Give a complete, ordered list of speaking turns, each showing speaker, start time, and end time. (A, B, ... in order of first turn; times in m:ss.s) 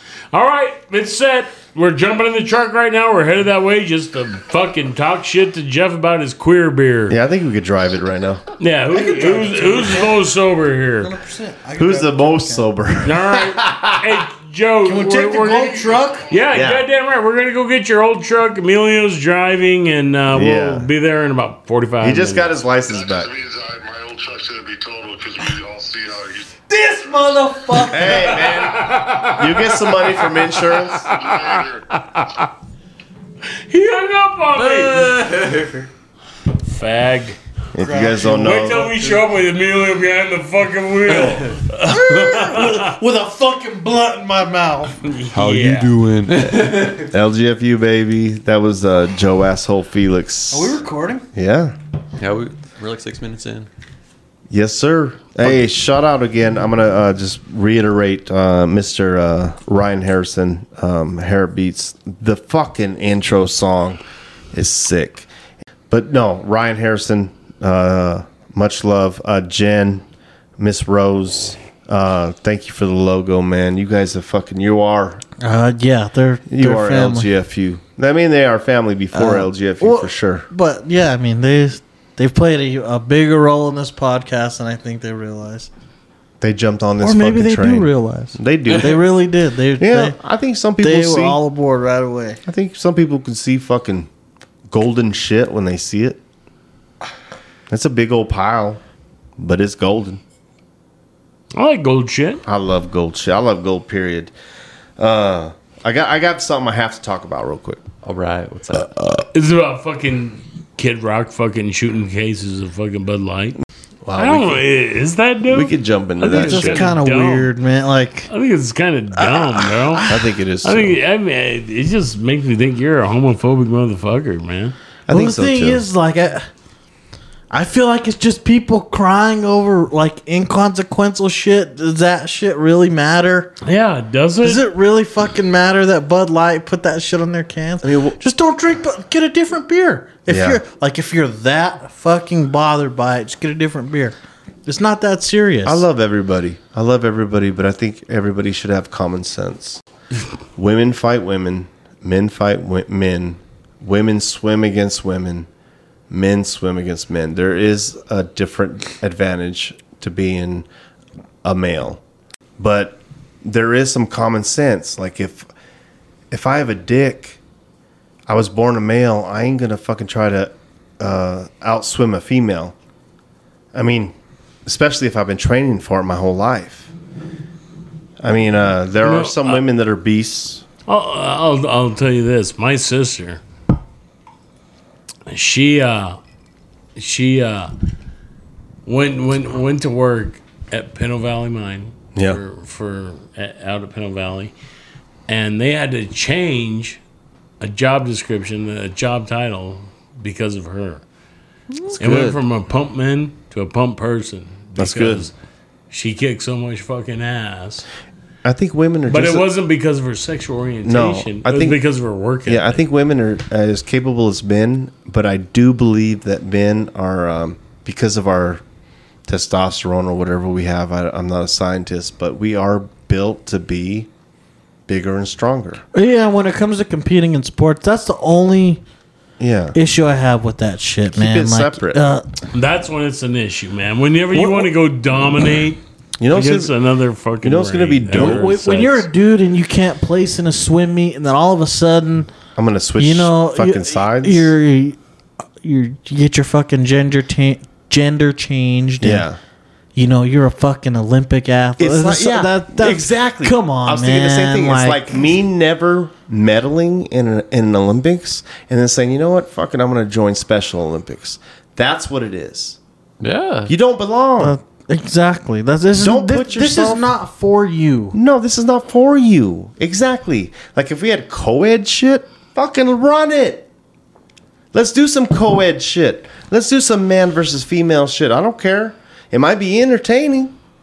0:00.3-0:07.2 A
0:07.1-0:08.4 B
0:08.6-0:11.1 A
0:08.9-0:10.2 C
0:11.0-0:12.7 C
0:11.8-0:14.2 B
0:13.0-0:22.5 A
0:14.8-0:16.3 C
0:15.7-0:16.6 D
0:16.5-0:16.8 B
0:20.3-0:20.9 B
0:22.0-0:23.3 B
0:22.9-0:26.5 D
0:26.7-0:28.4 C
0:27.8-0:31.1 B
0:28.0-0:32.5 A
0:31.0-0:31.8 D
0:33.7-0:35.3 A
0:34.6-0:35.9 E
0:36.6-0:37.4 A
0:37.7-0:38.9 B
0:37.8-0:39.2 C
0:38.2-0:42.9 A
0:41.8-0:44.9 C
0:45.0-0:45.9 A
0:45.3-0:47.1 E
0:47.1-0:50.8 B
0:50.5-0:51.2 C
0:51.3-0:51.8 B
0:52.2-0:53.7 E
0:54.5-1:04.0 B
1:04.5-1:05.3 B
1:05.9-1:10.0 B
1:10.6-1:15.2 B
1:15.4-1:17.3 C
1:16.5-1:20.4 B
1:19.1-1:25.7 C
1:26.4-1:29.1 B
1:27.0-1:30.2 C
1:29.8-1:31.4 B
1:30.8-1:32.4 C
1:32.4-1:34.1 B
1:34.7-1:36.2 B
1:37.7-1:38.8 B
1:39.4-1:40.2 B
1:41.5-1:42.4 A
1:42.4-1:44.3 B
1:45.0-1:47.8 B
1:48.0-1:48.9 E
1:48.7-1:49.2 B
1:49.3-1:53.6 A
1:54.0-1:54.6 B
1:54.2-1:57.5 A
1:55.4-1:56.9 B
1:56.2-1:58.3 C
1:58.3-2:00.1 A
1:59.2-2:00.2 C
2:00.1-2:01.0 B
2:00.6-2:04.7 A
2:05.1-2:05.8 B
2:05.1-2:06.5 C
2:07.5-2:13.5 C
2:13.6-2:14.6 A
2:14.4-2:25.8 C
2:17.8-2:18.2 B
2:20.3-2:20.6 B
2:25.6-2:29.8 B
2:30.6-2:35.5 B
2:36.1-2:40.7 B
2:41.4-2:42.0 B
2:42.6-2:45.5 B
2:46.3-2:47.4 B
2:48.3-2:52.7 B
2:53.7-2:54.1 B
2:54.6-2:56.9 B
2:58.2-3:00.6 B
2:59.0-2:59.6 A
3:00.9-3:03.4 A
3:05.3-3:06.2 A
3:07.0-3:07.7 A
3:08.8-3:14.5 A
3:12.1-3:12.4 B
3:15.3-3:17.0 A
3:17.6-3:21.0 A
3:21.9-3:22.4 B
3:22.0-3:25.3 A
3:24.8-3:25.3 B
3:25.9-3:27.8 A
3:28.4-3:29.5 B
3:29.1-3:32.8 A
3:30.8-3:31.8 B
3:32.4-3:38.6 B
3:39.3-3:44.1 B
3:44.9-3:45.8 B
3:45.9-3:48.8 C
3:49.4-3:49.8 B
3:49.7-3:52.2 C
3:51.1-3:52.0 B
3:52.5-3:58.6 A
3:54.3-3:54.7 B
3:56.2-3:56.7 B
3:57.4-3:59.0 B
3:58.1-4:02.3 C
4:02.6-4:04.5 B
4:03.0-4:05.0 C
4:05.6-4:09.2 C
4:09.0-4:09.4 B
4:10.0-4:15.1 C
4:11.8-4:22.8 B
4:23.2-4:23.7 E
4:23.7-4:24.5 B
4:24.4-4:28.2 C
4:26.0-4:27.1 B
4:28.1-4:33.7 B
4:34.7-4:40.5 B